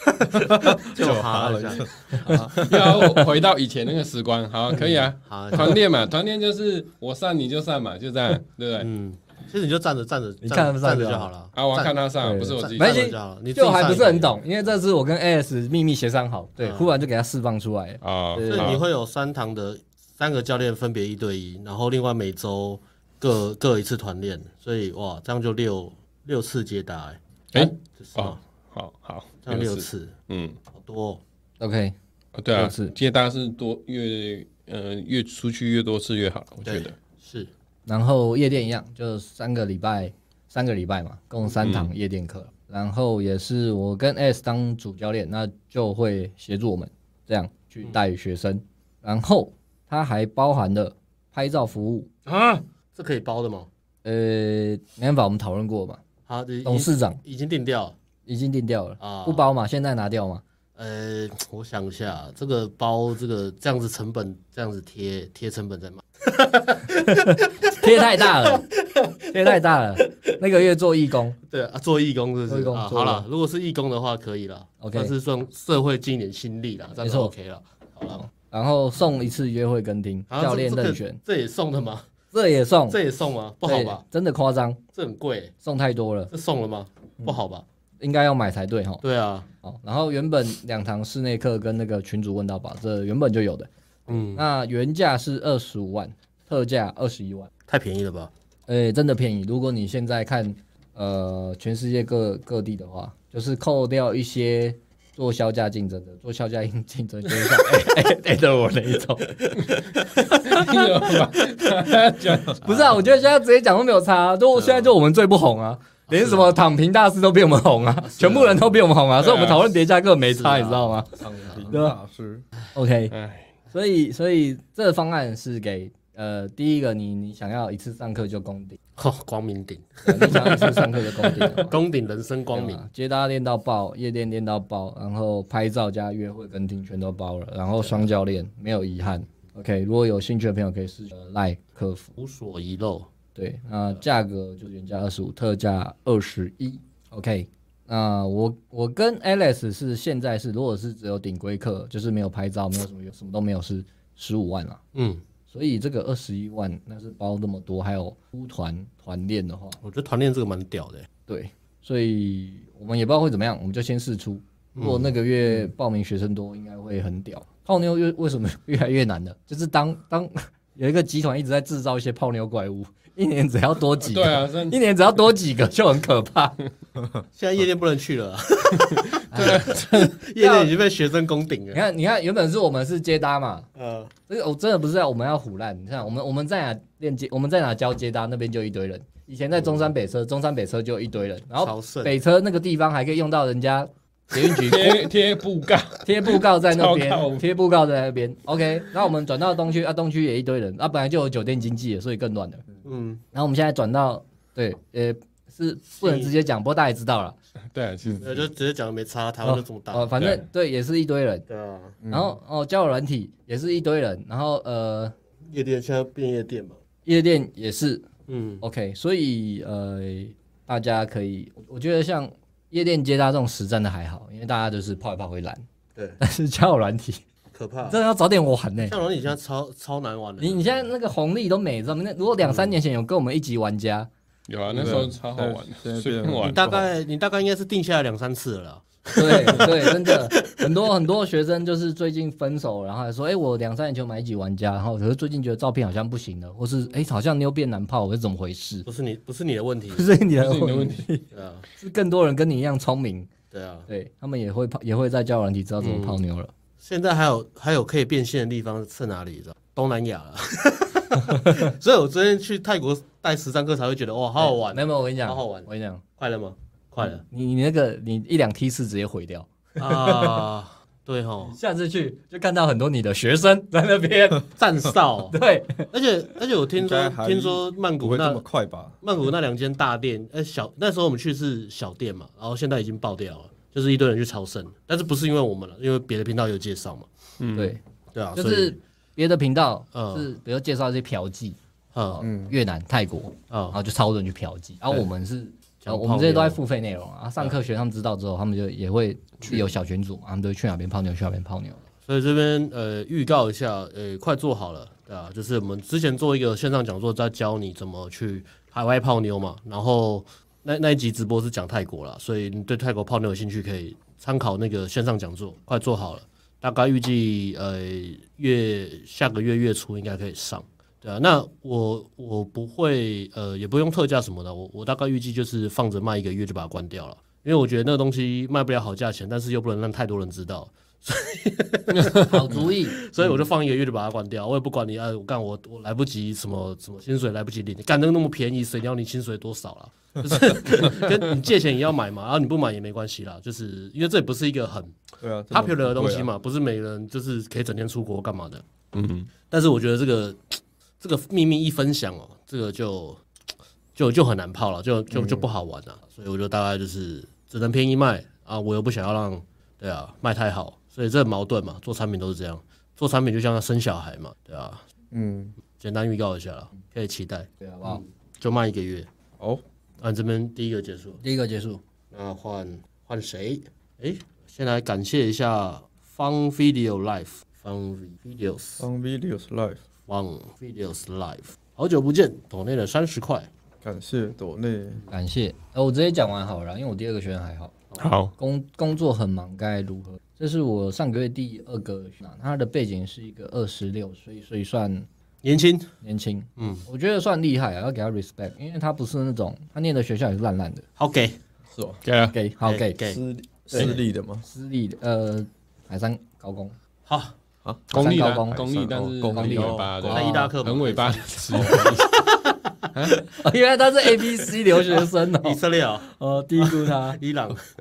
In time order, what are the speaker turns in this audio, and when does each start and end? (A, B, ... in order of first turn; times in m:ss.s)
0:00.2-0:02.9 A
0:00.8-0:02.4 B
0:02.2-0:03.2 C
0:02.5-0:08.9 D
0:04.8-0:05.8 B
0:08.8-0:14.4 B
0:10.4-0:11.3 C
0:11.5-0:13.0 D
0:12.2-0:18.8 C
0:16.6-0:16.9 B
0:18.0-0:18.8 D
0:18.5-0:28.4 B
0:27.5-0:30.6 D
0:29.4-0:30.1 B
0:30.7-0:31.2 B
0:31.6-0:31.9 C
0:32.3-0:36.9 D
0:32.5-0:32.9 C
0:36.6-0:37.5 B
0:37.8-0:52.1 C
0:41.6-0:41.9 D
0:52.2-0:53.7 B
0:54.0-0:56.0 C
0:56.3-0:58.0 B
0:56.6-0:57.2 C
0:58.3-1:00.4 C
0:59.0-0:59.5 B
1:00.8-1:09.5 B
1:07.1-1:08.7 C
1:09.2-1:11.4 C
1:11.5-1:18.2 B
1:12.5-1:13.2 C
1:14.8-1:15.1 C
1:17.0-1:17.3 C
1:18.3-1:21.2 C
1:20.3-1:22.1 B
1:22.3-1:23.0 C
1:22.9-1:24.0 B
1:23.6-1:24.8 C
1:24.9-1:25.5 B
1:25.6-1:26.3 C
1:26.3-1:27.6 B
1:28.0-1:29.0 C
1:29.0-1:29.5 B
1:29.6-1:37.5 C
1:34.1-1:34.4 B
1:37.7-1:38.3 B
1:38.7-1:49.6 C
1:50.3-1:51.1 C
1:50.3-1:52.6 D
1:52.6-2:01.1 C
1:52.6-1:52.9 B
1:54.5-1:54.9 B
1:56.1-1:56.6 B
1:58.1-1:58.7 B
1:59.2-1:59.6 D
2:00.3-2:01.6 B
2:01.2-2:02.4 A
2:01.7-2:02.0 C
2:02.7-2:03.1 C
2:03.1-2:03.5 D
2:03.7-2:08.8 C
2:09.0-2:12.8 B
2:10.0-2:11.8 C
2:12.5-2:22.1 C
2:17.8-2:18.0 B
2:22.2-2:23.1 B
2:23.3-2:34.8 C
2:34.9-2:35.2 B
2:35.5-2:39.8 C
2:39.8-2:41.1 B
2:41.3-2:56.6 C
2:44.7-2:45.7 B
2:54.0-2:54.8 D
2:57.3-3:01.8 B
2:59.3-3:00.7 C
2:59.4-2:59.8 D
3:01.7-3:03.7 C
3:03.8-3:04.1 B
3:04.3-3:15.1 C
3:11.6-3:12.2 B
3:14.6-3:17.4 D
3:16.0-3:22.6 C
3:22.8-3:23.2 B
3:23.3-3:27.4 C
3:26.0-3:26.3 B
3:27.7-3:28.3 D
3:28.2-3:30.2 B
3:29.4-3:31.4 C
3:30.2-3:30.4 D
3:31.5-3:32.0 B
3:32.0-3:32.4 A
3:32.1-3:35.1 C
3:35.5-3:36.8 B
3:37.0-3:38.0 C
3:38.3-3:38.6 B
3:38.6-3:45.6 C
3:46.2-3:47.2 C
3:47.5-3:48.0 B
3:47.8-3:49.0 C
3:48.9-3:50.9 B
3:50.4-3:54.1 C
3:52.4-3:52.7 B
3:54.5-3:56.6 D
3:54.7-3:56.9 A
3:56.4-4:00.6 B
3:59.2-4:08.8 C
4:08.8-4:10.1 B
4:09.9-4:13.3 C
4:10.4-4:11.1 D
4:11.3-4:11.6 B
4:13.5-4:13.9 B
4:13.9-4:16.5 C
4:15.8-4:16.2 B
4:16.8-4:27.2 B
4:24.4-4:26.0 C
4:27.2-4:30.4 C
4:29.8-4:31.5 B
4:31.4-4:34.4 C
4:34.6-4:35.4 B
4:35.3-4:35.9 C
4:35.9-4:38.4 B
4:36.8-4:39.0 A
4:39.0-4:47.1 B
4:47.4-4:47.8 D
4:47.5-4:47.8 C
4:48.1-4:48.8 B
4:48.4-4:51.6 C
4:49.9-4:50.3 B
4:51.9-4:52.2 B
4:52.1-5:01.8 C
4:52.2-4:52.6 A
4:53.5-4:53.8 B
4:55.8-4:56.6 B
4:59.4-4:59.7 B
5:02.0-5:45.0 B
5:32.3-5:33.0 C
5:45.2-5:46.3 A
5:45.5-5:48.6 B
5:48.9-5:49.3 D
5:49.5-5:53.2 B
5:53.9-6:04.8 B
5:55.1-5:55.5 A
6:05.1-6:05.5 A
6:05.8-6:09.1 B
6:07.6-6:08.0 C
6:10.0-6:11.2 B
6:11.2-6:11.8 C
6:12.1-6:18.8 B
6:18.8-6:19.8 A
6:20.1-6:23.5 B
6:23.8-6:25.0 A
6:25.1-6:27.7 C
6:28.0-6:28.3 D
6:28.4-6:35.1 C
6:35.4-6:35.9 B
6:36.0-6:40.8 C
6:36.6-6:36.8 B
6:41.0-6:41.4 B
6:41.7-6:42.0 A
6:42.0-6:42.4 D
6:42.3-6:43.0 C
6:42.6-6:43.2 B
6:43.0-6:44.4 A
6:44.5-6:46.7 C
6:47.1-6:47.3 B
6:47.6-6:50.2 A
6:47.9-6:52.1 D
6:47.9-6:48.6 C
6:49.3-6:50.5 C
6:50.1-6:52.5 B
6:51.5-6:51.9 A
6:52.9-6:53.2 D
6:53.4-6:57.2 C
6:54.8-6:57.6 B